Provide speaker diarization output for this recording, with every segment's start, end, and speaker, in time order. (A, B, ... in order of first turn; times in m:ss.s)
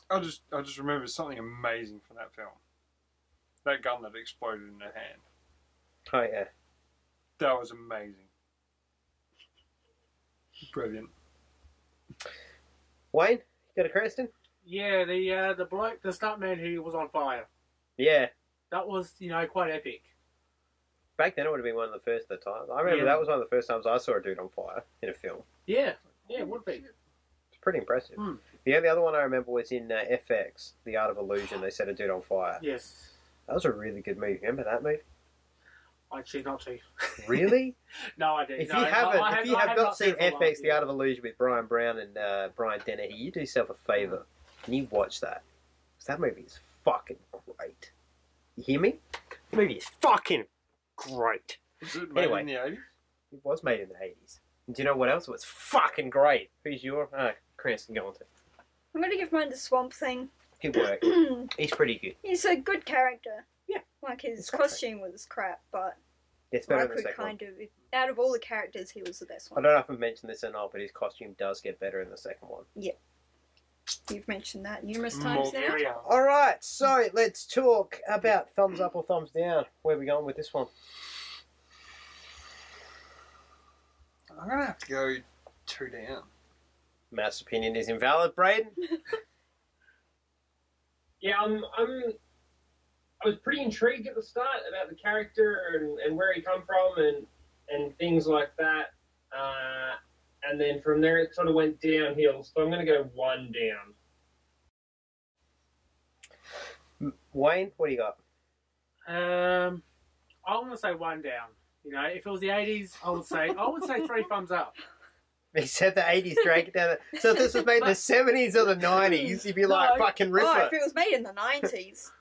0:00.1-0:02.6 A
0:03.6-0:05.2 A
0:06.1-0:06.5 B
0:07.4-0:08.3 A
0:10.7-0:11.1 A
0:13.1-0:14.3 B
0:14.6-0:17.5 C
0:18.0-0:18.3 B
0:18.7-0:20.1 C
0:21.2-0:25.4 B
0:22.8-0:23.2 C
0:25.6-0:26.8 C
0:26.1-0:26.9 A
0:27.5-0:32.6 B
0:32.6-0:33.1 C
0:33.5-0:35.0 B
0:36.1-0:37.5 C
0:37.2-0:37.8 B
0:38.2-0:40.8 C
0:38.6-0:45.4 B
0:46.0-0:47.9 B
0:48.6-0:49.0 B
0:49.5-0:50.5 B
0:51.0-0:51.6 B
0:51.8-0:52.8 A
0:52.1-0:52.5 B
0:53.3-0:58.2 B
0:58.9-1:00.3 D
1:00.6-1:02.2 B
1:01.0-1:01.5 D
1:02.2-1:03.5 D
1:04.0-1:06.0 D
1:04.4-1:04.8 B
1:06.5-1:07.4 B
1:06.7-1:09.7 D
1:09.5-1:12.6 B
1:14.1-1:15.8 D
1:15.1-1:16.1 A
1:15.4-1:16.0 C
1:16.0-1:20.7 B
1:24.3-1:26.3 A
1:27.1-1:28.8 B
1:31.2-1:32.2 E
1:33.2-1:43.9 E
1:47.0-1:48.2 B
1:49.1-1:49.8 C
1:50.4-1:54.7 C
1:55.5-2:00.7 B
1:59.6-2:00.1 C
2:00.3-2:02.1 D